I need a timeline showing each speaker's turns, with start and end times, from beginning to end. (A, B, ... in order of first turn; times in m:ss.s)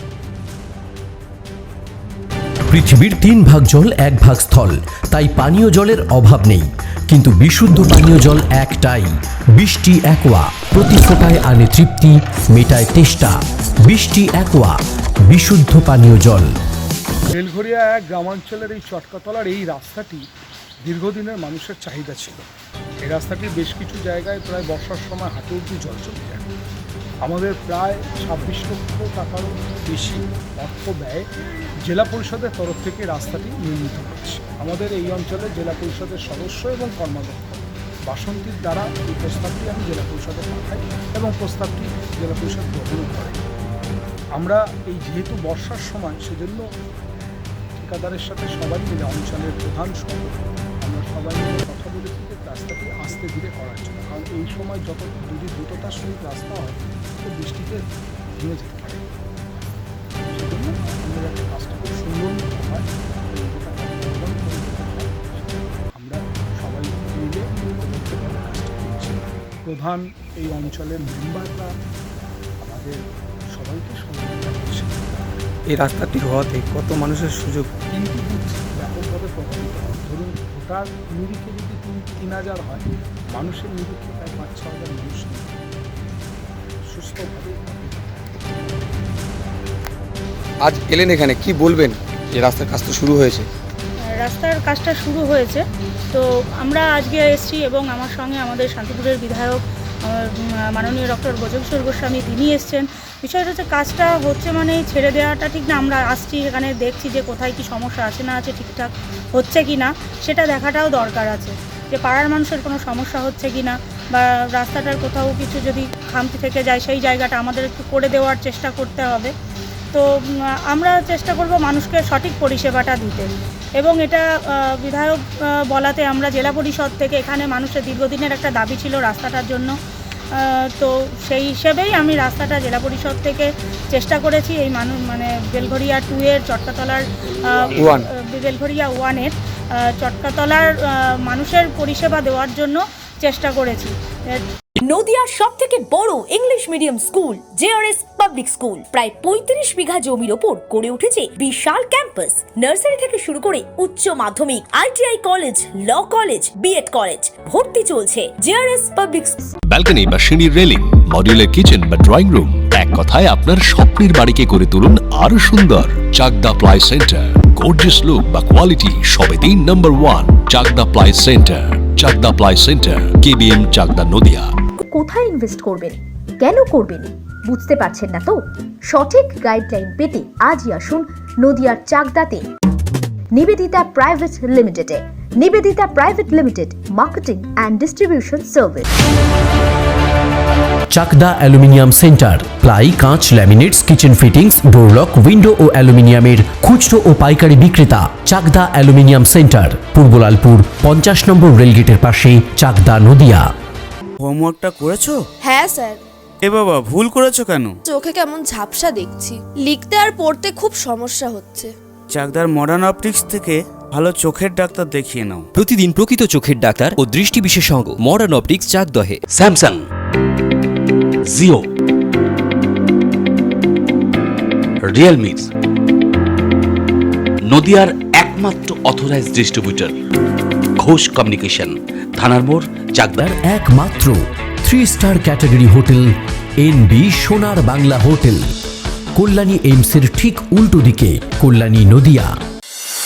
0:02.7-0:16.5 A
0:17.3-0:20.2 B
0:20.9-0:22.4 B
0:23.0-0:26.5 B
0:27.2-0:31.2 B
0:31.9-0:43.4 B
0:44.4-0:46.6 B
0:47.8-0:57.8 B
0:58.3-0:59.7 B
1:00.3-1:11.7 B
1:12.6-1:13.0 B
1:13.5-1:15.5 B
1:15.7-1:17.7 C
1:17.8-1:25.6 B
1:26.9-1:29.1 B
1:30.6-1:33.5 C
1:34.2-1:59.3 D
2:00.7-2:04.2 D
2:04.8-2:05.2 D
2:05.7-2:09.7 D
2:10.3-2:17.0 D
2:17.6-2:19.3 D
2:20.0-2:24.4 D
2:24.8-2:39.4 E
2:39.7-2:54.5 F
2:54.9-3:02.5 G
3:03.3-3:08.9 G
3:10.9-3:23.5 A
3:24.2-3:25.2 H
3:25.4-3:26.0 I
3:26.4-3:27.8 H
3:27.9-3:31.7 I
3:32.1-3:35.5 H
3:35.6-3:39.2 J
3:39.4-3:39.8 K
3:41.3-3:41.6 K
3:44.9-3:45.5 K
3:47.5-3:49.9 K
3:50.8-3:53.1 K
3:53.2-3:58.4 A
3:59.2-4:02.3 A